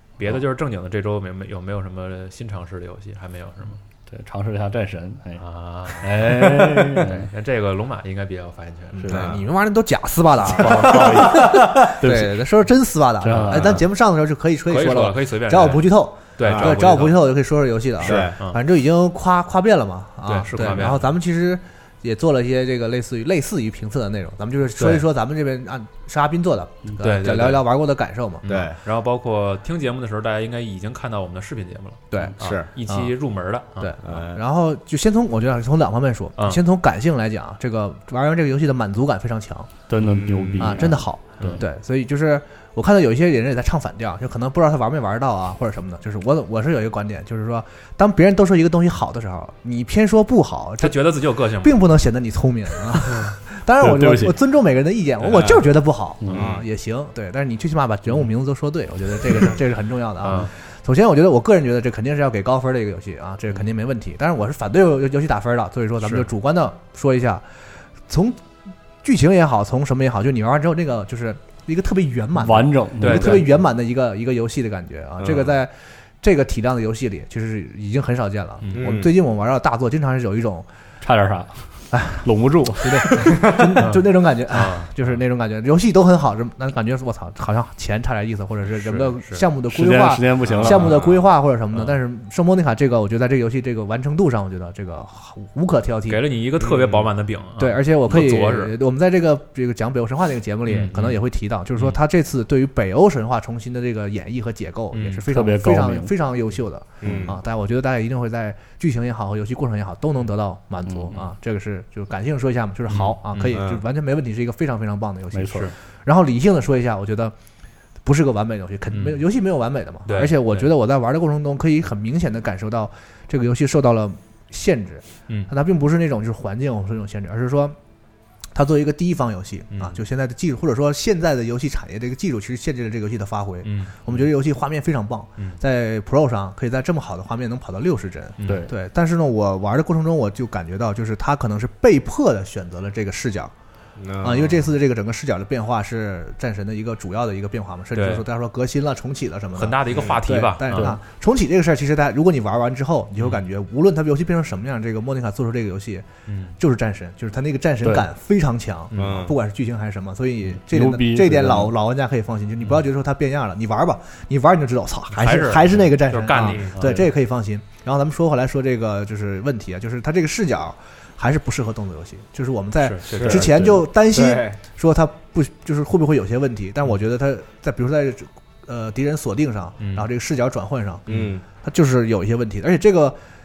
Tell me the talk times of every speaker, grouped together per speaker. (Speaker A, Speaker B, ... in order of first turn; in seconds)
Speaker A: 0.2-3.8, 5.4-9.1, 14.7-17.3, 18.0-18.6, 20.2-21.0, 24.8-25.0, 27.0-27.6, 28.4-34.0, 50.8-51.8, 60.2-60.5, 73.0-73.5, 78.6-78.9, 83.8-85.0, 88.8-89.5, 96.1-98.8, 100.7-101.2, 104.9-105.2, 112.9-113.6, 118.9-119.2, 120.1-120.7, 129.7-130.0, 133.6-134.0, 138.4-138.7, 147.9-148.2, 149.6-151.0, 156.3-156.6, 165.2-167.0, 172.8-173.4, 179.8-180.1
Speaker B: 4.1-5.4, 6.0-7.3, 10.5-12.4, 13.2-13.8, 39.9-41.6, 53.8-54.4, 56.2-56.5, 72.4-73.5, 81.0-83.7, 89.7-91.0, 105.3-106.1, 110.9-111.2, 115.3-115.7, 138.4-138.7, 160.6-161.7, 166.8-167.1, 173.4-173.7
Speaker C: 8.9-28.5, 32.1-33.1, 33.8-39.8, 40.6-68.4, 69.0-80.7, 81.9-82.3, 82.8-96.2, 97.6-117.3, 118.0-127.8, 128.5-143.5, 144.2-183.2
Speaker D: 9.1-9.4, 10.6-11.8, 16.4-16.8, 18.0-18.4, 28.5-28.8, 32.4-32.7, 34.0-34.4, 40.0-40.8, 56.3-56.6, 75.2-75.5, 78.7-79.1, 90.5-91.2, 96.6-97.1, 107.0-107.3, 113.5-113.8, 144.0-144.7, 149.9-150.2, 158.9-159.3, 166.4-166.8, 173.1-174.6, 181.1-181.4